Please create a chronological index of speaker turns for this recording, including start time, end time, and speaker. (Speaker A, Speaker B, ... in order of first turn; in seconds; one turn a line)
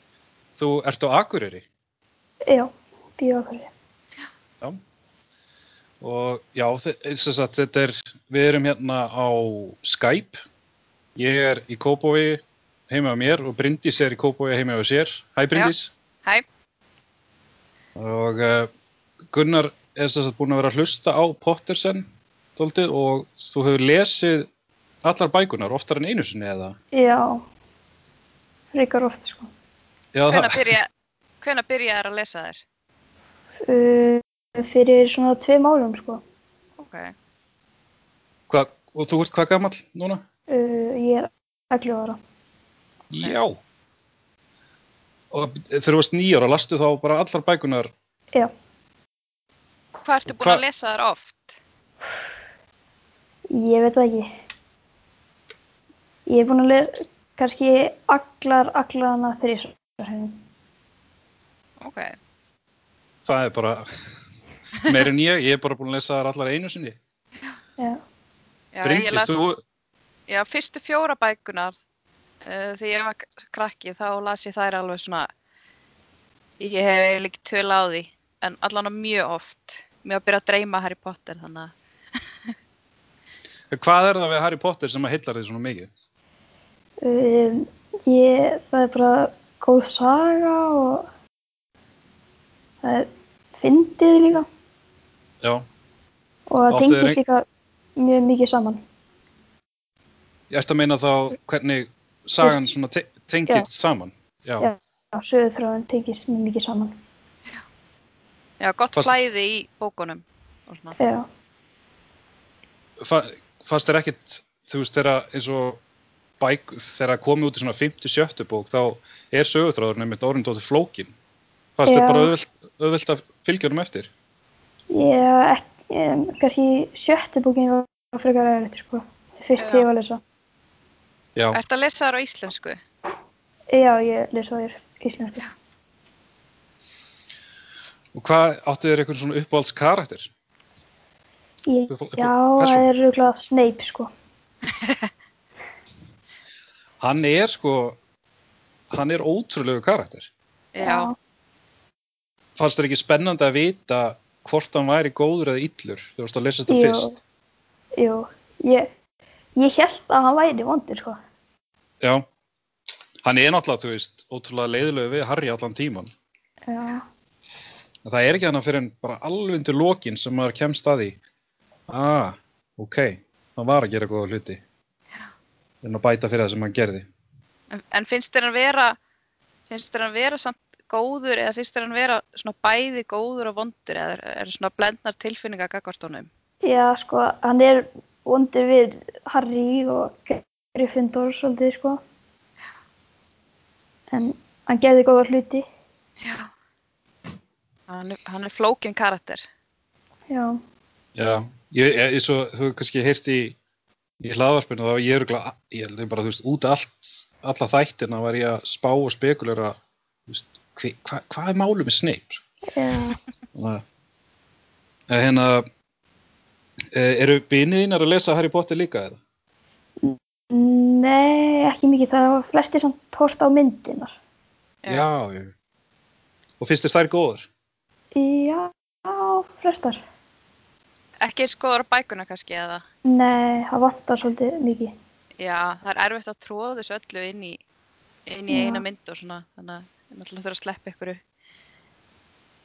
Speaker A: 0.6-1.7
Speaker B: 2.5-3.7
Speaker A: 6.0-10.4
Speaker A: 11.2-15.9
Speaker A: 18.0-18.7
Speaker A: 19.3-24.5
Speaker A: 25.0-26.8
Speaker B: 26.9-27.5
Speaker B: 28.7-29.5
Speaker A: 30.1-30.7
Speaker C: 30.3-30.9
Speaker C: 31.4-32.6
Speaker B: 33.6-36.2
Speaker C: 36.8-37.1
Speaker A: 38.5-40.2
Speaker B: 40.5-42.2
Speaker A: 43.1-43.6
Speaker A: 45.3-47.9
Speaker C: 49.9-51.6
Speaker A: 50.3-50.6
Speaker B: 53.5-54.3
Speaker B: 56.3-60.4
Speaker C: 61.8-62.2
Speaker A: 63.2-63.9
Speaker A: 64.8-67.0
Speaker C: 68.7-69.4
Speaker A: 68.8-69.6
Speaker C: 70.3-71.8
Speaker C: 72.4-75.3
Speaker C: 76.6-81.7
Speaker A: 83.7-85.9
Speaker B: 87.0-91.1
Speaker B: 92.8-94.5
Speaker A: 95.4-95.7
Speaker B: 96.5-97.5
Speaker A: 96.7-97.2
Speaker B: 98.0-98.8
Speaker A: 100.5-104.7
Speaker B: 104.6-107.0
Speaker C: 108.6-111.0
Speaker B: 111.0-111.3
Speaker A: 113.0-115.8
Speaker A: 116.4-121.1
Speaker A: 121.8-124.1
Speaker B: 121.8-122.3
Speaker B: 124.9-130.2
Speaker C: 129.6-129.9
Speaker C: 131.5-132.8
Speaker B: 133.7-135.4
Speaker A: 138.1-140.3
Speaker B: 141.7-144.1
Speaker A: 141.9-142.9
Speaker C: 144.8-145.1
Speaker A: 147.0-148.0
Speaker A: 148.9-150.3
Speaker C: 150.7-151.1
Speaker B: 150.8-151.2
Speaker A: 152.6-157.2
Speaker B: 156.7-157.2
Speaker B: 158.0-158.9
Speaker B: 159.6-161.2
Speaker A: 162.0-162.3
Speaker A: 163.2-166.1
Speaker B: 166.7-167.1
Speaker A: 168.1-171.2
Speaker A: 171.9-174.6
Speaker A: 175.8-177.1
Speaker C: 177.7-179.0
Speaker C: 179.7-186.3
Speaker B: 186.6-192.0
Speaker B: 194.1-195.7
Speaker C: 196.2-196.5
Speaker C: 197.9-199.5
Speaker B: 200.3-200.6
Speaker A: 201.2-203.6
Speaker A: 204.2-212.4
Speaker B: 212.7-213.2
Speaker A: 213.5-213.8
Speaker A: 215.1-215.7
Speaker A: 216.9-219.2
Speaker B: 220.0-224.2
Speaker A: 224.9-225.5
Speaker A: 226.6-227.5
Speaker B: 228.2-230.0
Speaker C: 231.2-232.8
Speaker B: 233.1-234.9
Speaker C: 235.4-237.6
Speaker C: 238.3-241.2
Speaker B: 238.5-238.8